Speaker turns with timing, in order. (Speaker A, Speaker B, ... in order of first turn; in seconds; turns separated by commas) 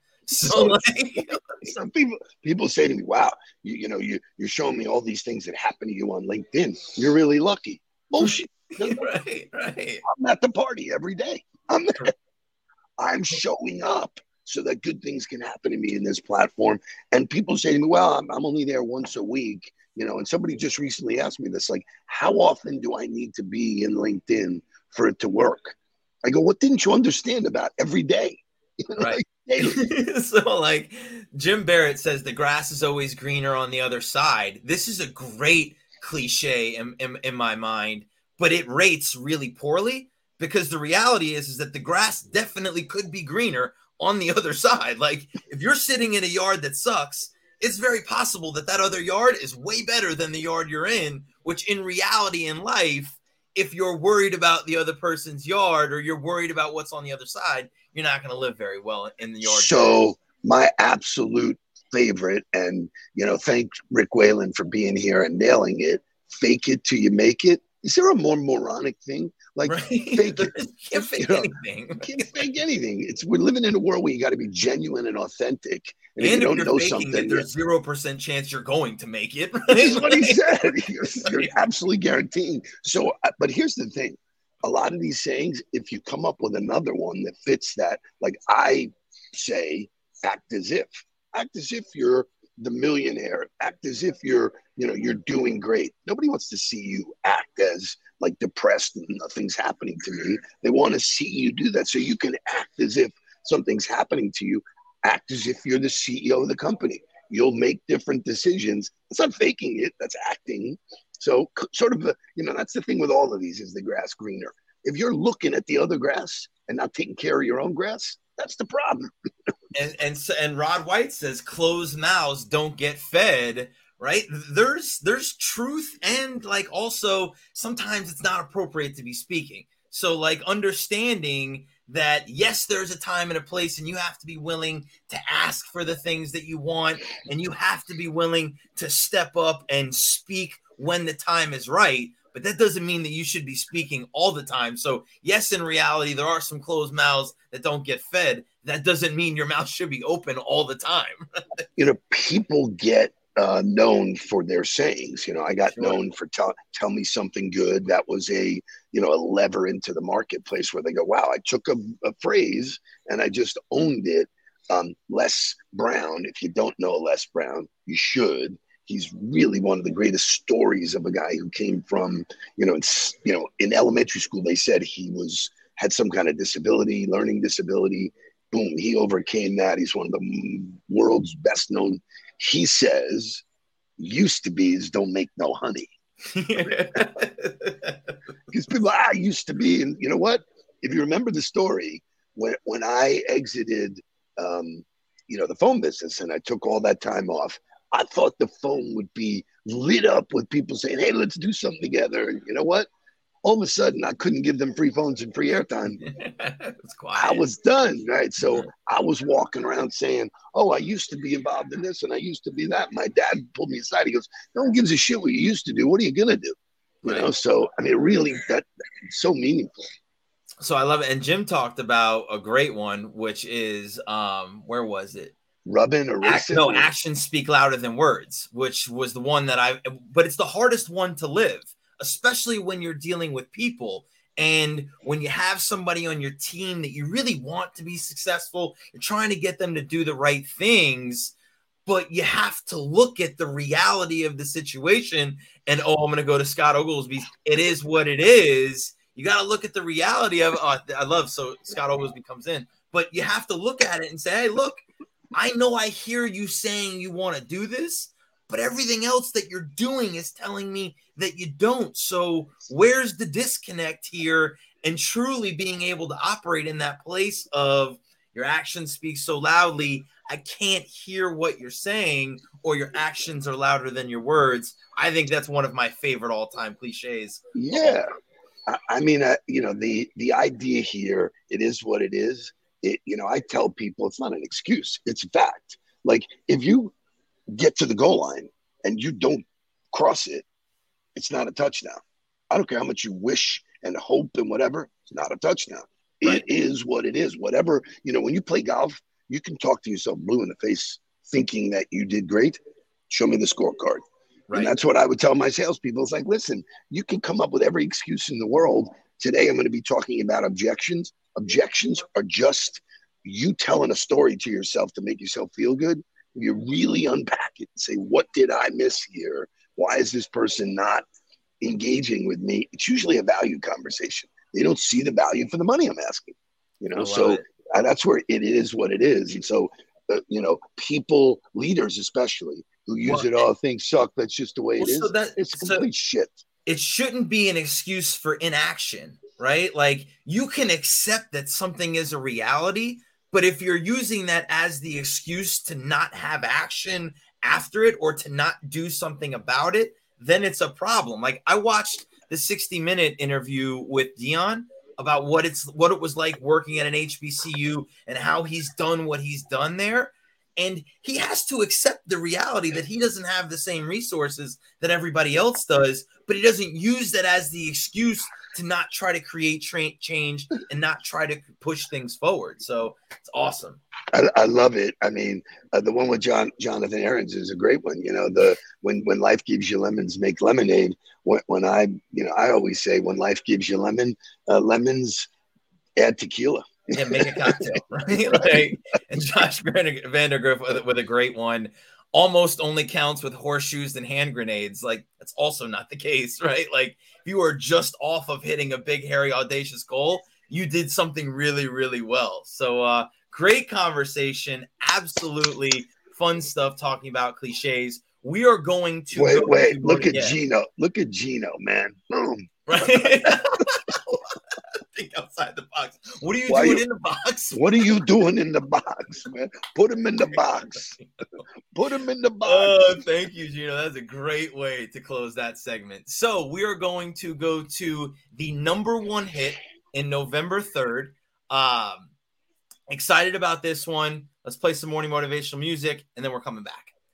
Speaker A: 0.3-0.8, Speaker B: 0.3-1.6, Speaker A: 1.6-9.1, Speaker B: 8.2-10.0, Speaker A: 10.0-12.1, Speaker A: 13.0-29.8, Speaker B: 28.9-60.0, Speaker A: 59.4-71.5, Speaker B: 69.7-72.5, Speaker A: 72.0-77.5, Speaker B: 76.2-80.7, Speaker A: 79.7-119.1, Speaker B: 81.2-81.5, Speaker B: 119.7-151.6, Speaker A: 151.8-183.4, Speaker B: 155.7-156.0, Speaker A: 184.0-185.9, Speaker B: 186.3-188.1, Speaker A: 188.5-202.9, Speaker A: 203.4-206.0, Speaker B: 206.0-207.4, Speaker A: 207.1-219.9, Speaker B: 217.0-217.3, Speaker B: 220.6-225.3, Speaker A: 225.6-226.9, Speaker B: 226.2-241.3, Speaker B: 241.8-254.8, Speaker B: 255.3-278.0, Speaker A: 277.5-278.1, Speaker A: 278.7-286.9, Speaker A: 287.5-290.4, Speaker A: 291.1-321.0, Speaker B: 304.5-304.7, Speaker A: 321.6-336.4, Speaker B: 326.9-327.4, Speaker B: 333.0-333.4, Speaker B: 334.8-335.9, Speaker B: 336.6-373.8, Speaker A: 374.1-385.3, Speaker A: 385.9-387.8, Speaker B: 386.9-410.4, Speaker A: 388.3-388.7, Speaker A: 409.1-413.4, Speaker B: 412.7-417.9, Speaker A: 416.5-416.8, Speaker A: 417.5-421.0, Speaker A: 421.7-422.9, Speaker B: 422.4-432.1, Speaker B: 432.9-436.9